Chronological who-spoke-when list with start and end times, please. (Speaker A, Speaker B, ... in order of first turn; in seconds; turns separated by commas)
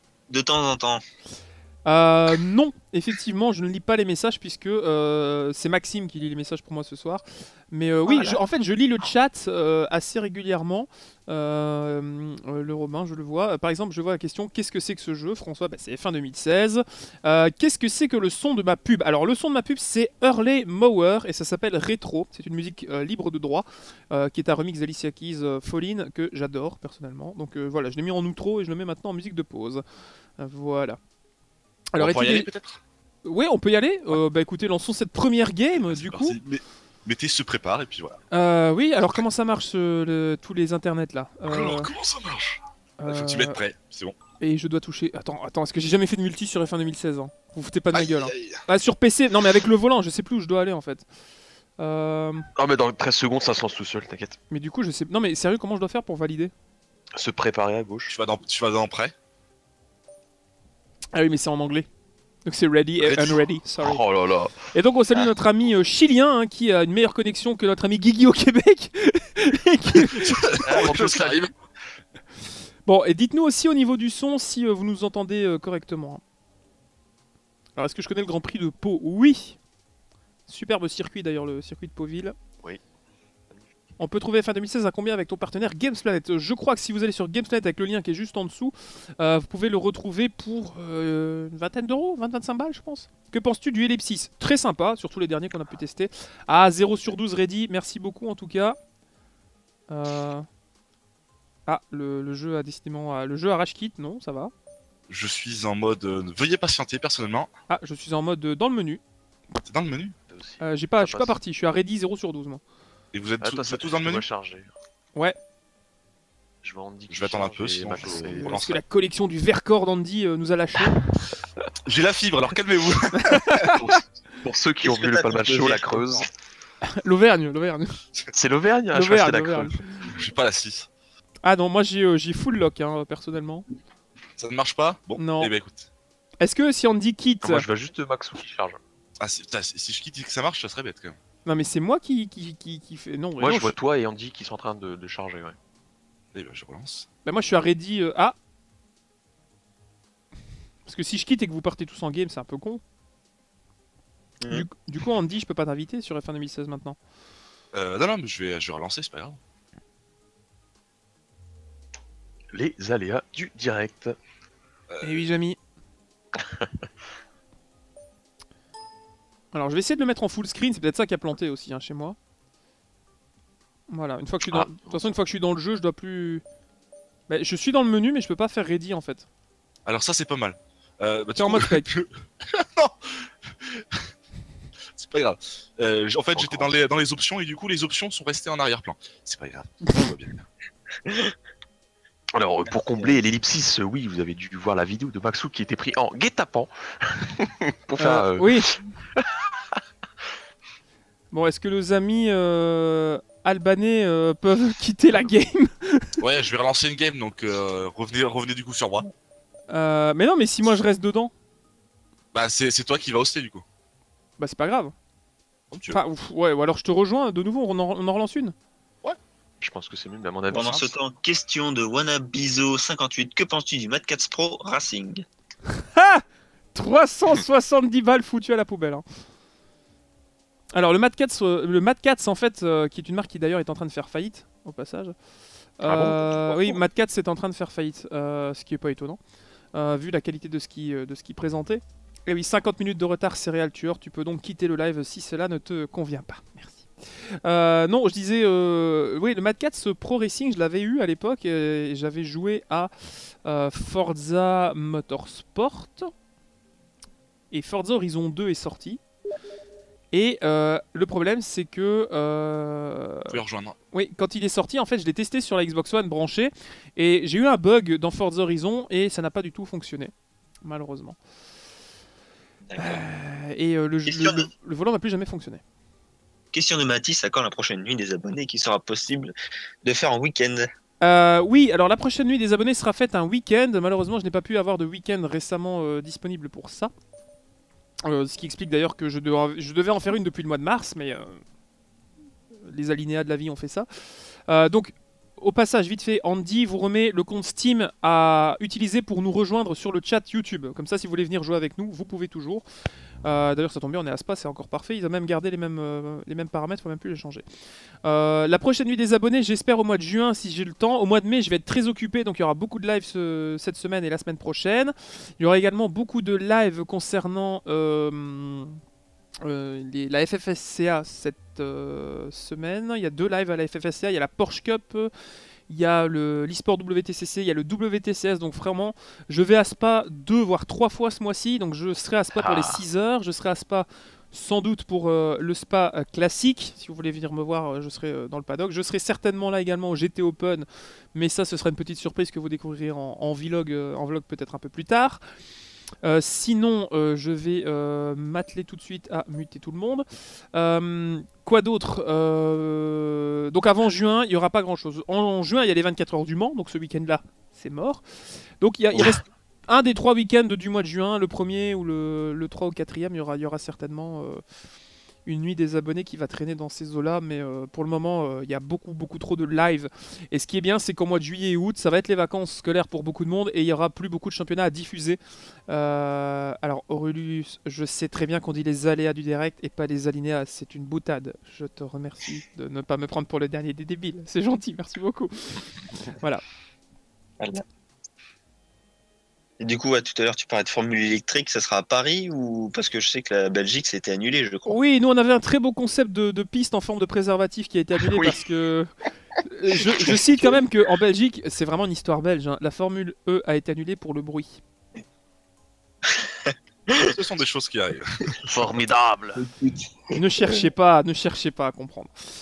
Speaker A: 0.3-1.0, Speaker B: 1.9-29.8, Speaker A: 8.1-8.4, Speaker B: 30.4-31.0, Speaker B: 31.9-32.5, Speaker C: 32.0-32.8, Speaker B: 33.2-36.4, Speaker C: 35.9-38.2, Speaker B: 38.3-41.9, Speaker C: 41.5-44.1, Speaker B: 43.0-43.6, Speaker B: 44.4-51.0, Speaker C: 47.9-48.6, Speaker B: 51.8-52.5, Speaker D: 52.6-54.4, Speaker B: 54.5-56.5, Speaker D: 57.1-58.1, Speaker C: 58.1-59.1, Speaker B: 61.1-61.9, Speaker B: 62.5-64.0, Speaker C: 63.0-63.4, Speaker D: 63.8-64.7, Speaker B: 64.7-70.8, Speaker C: 70.1-71.5, Speaker D: 70.6-71.5, Speaker B: 72.8-76.2, Speaker B: 77.8-79.6, Speaker B: 80.5-82.3, Speaker B: 84.0-98.8, Speaker B: 99.9-100.5, Speaker B: 101.7-104.5, Speaker C: 105.1-107.5, Speaker B: 107.7-109.0, Speaker C: 109.6-110.1, Speaker D: 110.3-111.4, Speaker B: 110.6-112.6, Speaker C: 113.1-114.2, Speaker D: 113.4-114.7, Speaker D: 116.6-118.6, Speaker C: 117.1-118.8, Speaker B: 118.2-121.0, Speaker C: 121.8-123.7, Speaker B: 123.1-124.0, Speaker D: 123.8-126.3, Speaker A: 124.8-126.3, Speaker B: 126.8-128.0, Speaker D: 128.3-129.8, Speaker B: 128.9-129.8, Speaker C: 130.0-130.9, Speaker B: 131.4-133.7, Speaker C: 134.4-135.9, Speaker B: 135.2-135.5, Speaker B: 136.4-137.6, Speaker D: 137.4-138.8, Speaker C: 139.2-141.2, Speaker B: 141.4-143.7, Speaker D: 143.4-145.6, Speaker C: 146.3-147.1, Speaker B: 147.2-148.3, Speaker B: 150.8-152.8, Speaker A: 154.4-154.7, Speaker B: 154.5-157.0, Speaker C: 157.7-159.4, Speaker D: 162.5-164.2, Speaker C: 164.9-165.2, Speaker B: 165.0-165.6, Speaker B: 169.5-172.2, Speaker B: 173.9-176.4, Speaker D: 174.5-175.0, Speaker B: 177.3-179.3, Speaker C: 179.8-184.0, Speaker B: 181.3-181.9, Speaker C: 184.9-190.4, Speaker D: 186.3-186.7, Speaker A: 191.0-191.3, Speaker D: 192.3-199.2, Speaker A: 192.7-193.2, Speaker B: 198.0-198.7, Speaker B: 201.3-206.2, Speaker C: 206.2-209.1, Speaker B: 209.7-211.3, Speaker C: 212.3-213.6, Speaker B: 214.4-214.9, Speaker C: 215.7-216.0, Speaker B: 215.9-218.5, Speaker D: 219.6-220.8, Speaker A: 220.5-225.2, Speaker C: 220.5-220.8, Speaker B: 225.7-229.0, Speaker B: 230.7-235.1, Speaker B: 235.8-239.2, Speaker D: 235.9-236.8, Speaker B: 239.7-246.9, Speaker B: 247.4-252.9, Speaker B: 253.4-256.1, Speaker B: 257.5-259.0, Speaker B: 260.1-263.4, Speaker C: 263.3-263.8, Speaker B: 263.9-270.1, Speaker B: 270.6-271.2, Speaker A: 272.7-273.0, Speaker B: 272.8-275.6, Speaker A: 274.1-274.5, Speaker A: 276.5-279.3, Speaker A: 279.8-280.7, Speaker B: 281.0-286.9, Speaker B: 288.0-291.4, Speaker B: 292.6-293.9, Speaker B: 294.5-302.6, Speaker B: 303.2-307.4, Speaker B: 308.0-318.8, Speaker B: 319.4-325.1, Speaker B: 325.7-345.2, Speaker D: 332.4-332.8, Speaker B: 346.0-358.0, Speaker B: 358.6-364.4, Speaker B: 365.2-385.6, Speaker A: 389.6-394.8, Speaker B: 394.7-398.9, Speaker D: 398.0-398.4, Speaker B: 399.4-404.6, Speaker A: 400.1-400.6, Speaker A: 406.1-407.1, Speaker C: 407.0-408.3, Speaker D: 408.4-409.4, Speaker A: 409.4-410.2, Speaker B: 410.1-412.1